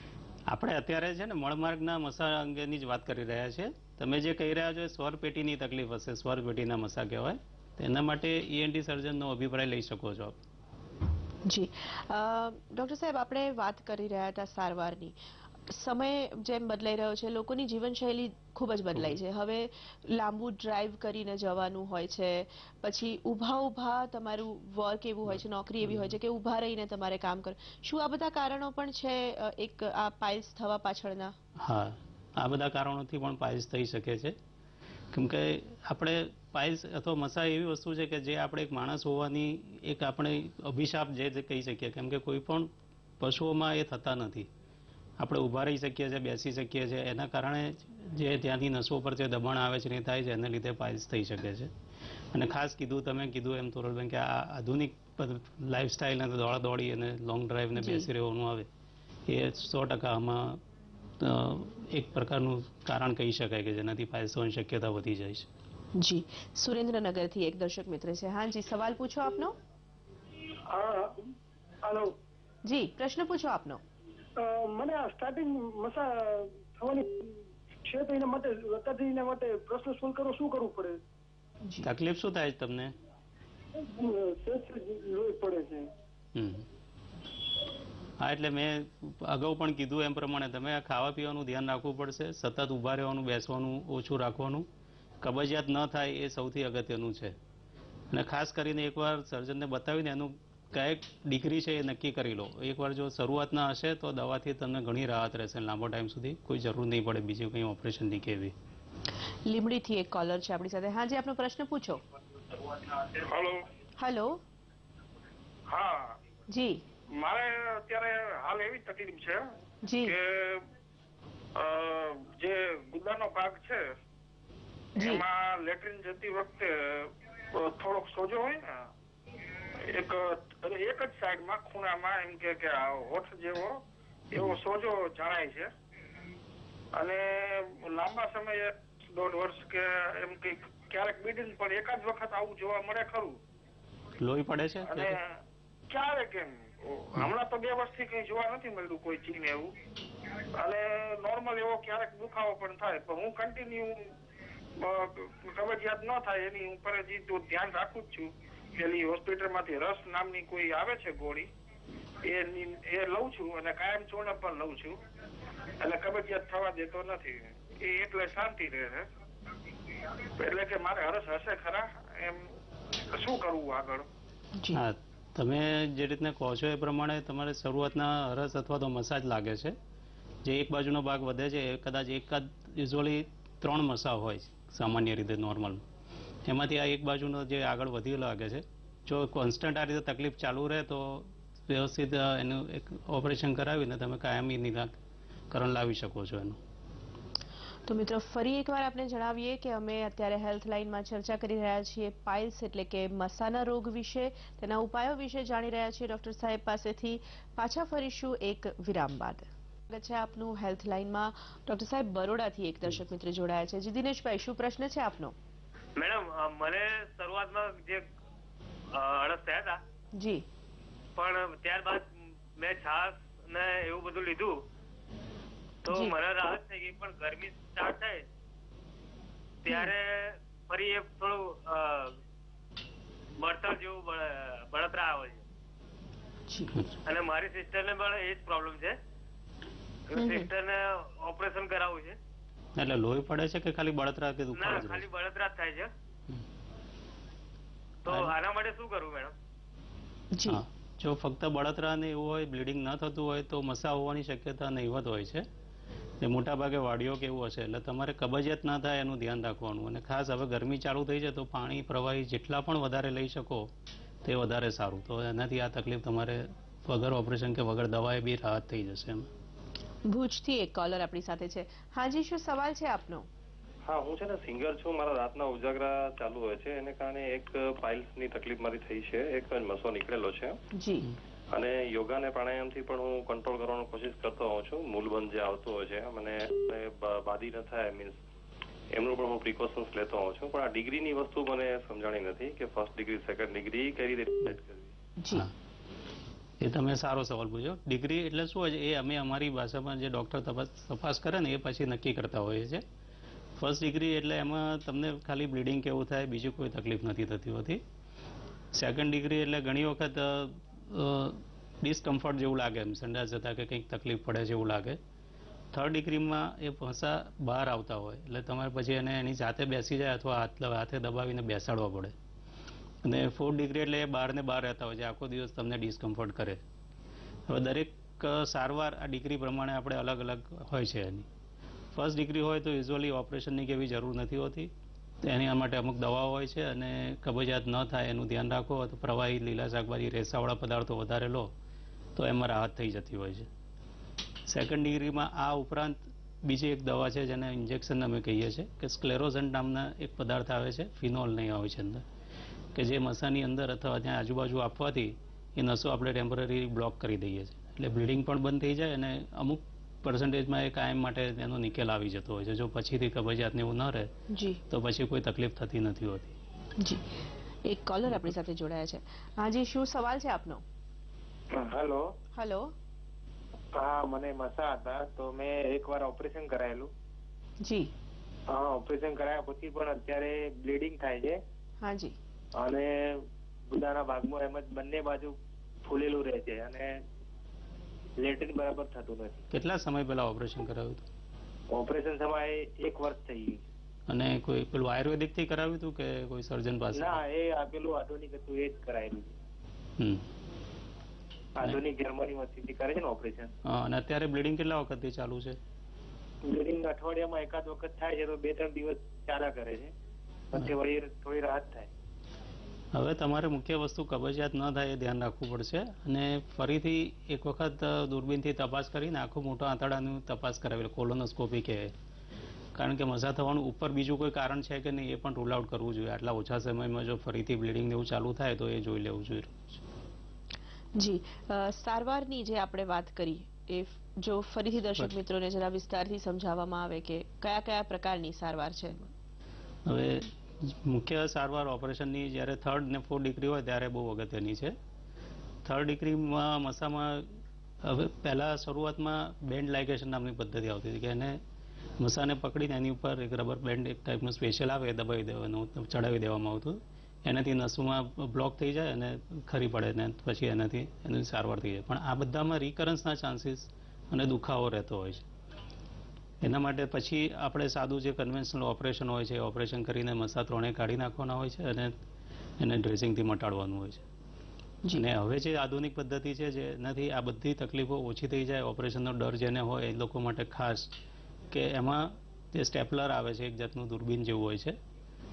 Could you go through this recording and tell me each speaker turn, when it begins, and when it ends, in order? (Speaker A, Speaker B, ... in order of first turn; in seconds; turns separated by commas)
Speaker A: 0.5-10.4, Speaker B: 11.4-15.2, Speaker B: 15.7-31.3, Speaker A: 25.3-26.1, Speaker A: 31.6-34.4, Speaker A: 35.1-44.5, Speaker A: 45.2-51.7, Speaker A: 52.3-58.7, Speaker B: 57.8-58.1, Speaker A: 59.3-60.6, Speaker A: 61.2-65.5, Speaker B: 66.0-69.5, Speaker C: 70.7-71.2, Speaker C: 71.8-72.1, Speaker B: 72.6-73.8, Speaker C: 74.4-81.0, Speaker A: 81.8-82.9, Speaker C: 83.8-85.9, Speaker A: 86.3-86.7, Speaker A: 88.2-94.7, Speaker A: 95.2-97.3, Speaker A: 98.1-108.5, Speaker B: 109.4-112.0, Speaker D: 113.1-113.6, Speaker B: 114.0-114.4, Speaker D: 115.7-116.2, Speaker B: 116.5-116.8, Speaker D: 117.2-119.5, Speaker B: 119.8-120.2, Speaker D: 120.0-120.7, Speaker D: 121.5-123.9, Speaker B: 125.0-125.2, Speaker D: 125.0-128.9, Speaker D: 129.8-133.8, Speaker D: 134.3-135.7, Speaker D: 136.9-143.4, Speaker A: 144.2-145.2, Speaker D: 144.9-149.7, Speaker D: 150.5-154.1, Speaker D: 154.8-161.5, Speaker D: 162.2-165.0, Speaker D: 165.8-169.1, Speaker D: 170.4-172.5, Speaker D: 173.1-174.1, Speaker A: 174.7-179.8, Speaker A: 180.4-185.8, Speaker A: 186.4-194.9, Speaker A: 195.5-196.6, Speaker B: 197.9-215.3, Speaker E: 215.9-218.1, Speaker E: 218.9-219.8, Speaker B: 220.2-220.4, Speaker E: 221.2-224.6, Speaker E: 225.8-228.2, Speaker B: 225.9-226.1, Speaker E: 229.6-232.2, Speaker E: 233.4-235.4, Speaker B: 236.5-236.8, Speaker E: 237.0-238.9, Speaker E: 240.1-242.2, Speaker B: 240.1-240.5, Speaker A: 242.8-245.0, Speaker E: 244.5-245.9, Speaker E: 248.0-249.3, Speaker B: 250.3-250.6, Speaker A: 250.5-255.5, Speaker A: 256.2-263.7, Speaker A: 264.2-269.3, Speaker B: 270.1-273.3, Speaker F: 273.9-280.6, Speaker B: 280.7-281.1, Speaker F: 281.5-288.2, Speaker F: 288.9-294.9, Speaker B: 295.2-295.5, Speaker A: 296.6-302.8, Speaker A: 303.6-307.8, Speaker A: 308.7-315.0, Speaker A: 315.7-322.1, Speaker A: 323.0-326.6, Speaker A: 327.5-331.3, Speaker A: 331.9-334.7, Speaker A: 335.2-341.5, Speaker A: 342.1-343.5, Speaker A: 344.5-352.0, Speaker A: 352.7-364.1, Speaker B: 364.3-364.6, Speaker A: 364.7-366.3, Speaker B: 366.8-370.6, Speaker G: 371.5-372.1, Speaker B: 372.3-372.7, Speaker G: 373.7-376.9, Speaker B: 377.6-377.9, Speaker G: 378.5-381.4, Speaker B: 381.8-382.1, Speaker G: 382.6-387.0, Speaker G: 388.2-389.4, Speaker A: 389.5-391.1, Speaker G: 391.7-393.6, Speaker A: 394.1-397.2, Speaker G: 396.9-399.3, Speaker G: 401.6-403.5, Speaker A: 403.6-405.6, Speaker G: 406.4-409.9, Speaker G: 410.5-411.9, Speaker A: 412.9-421.9, Speaker A: 422.7-429.8, Speaker B: 430.9-439.1, Speaker A: 439.9-444.7, Speaker A: 445.6-451.4, Speaker A: 452.0-465.2, Speaker A: 466.4-471.9, Speaker A: 472.6-474.0, Speaker A: 474.9-480.9, Speaker A: 481.5-484.8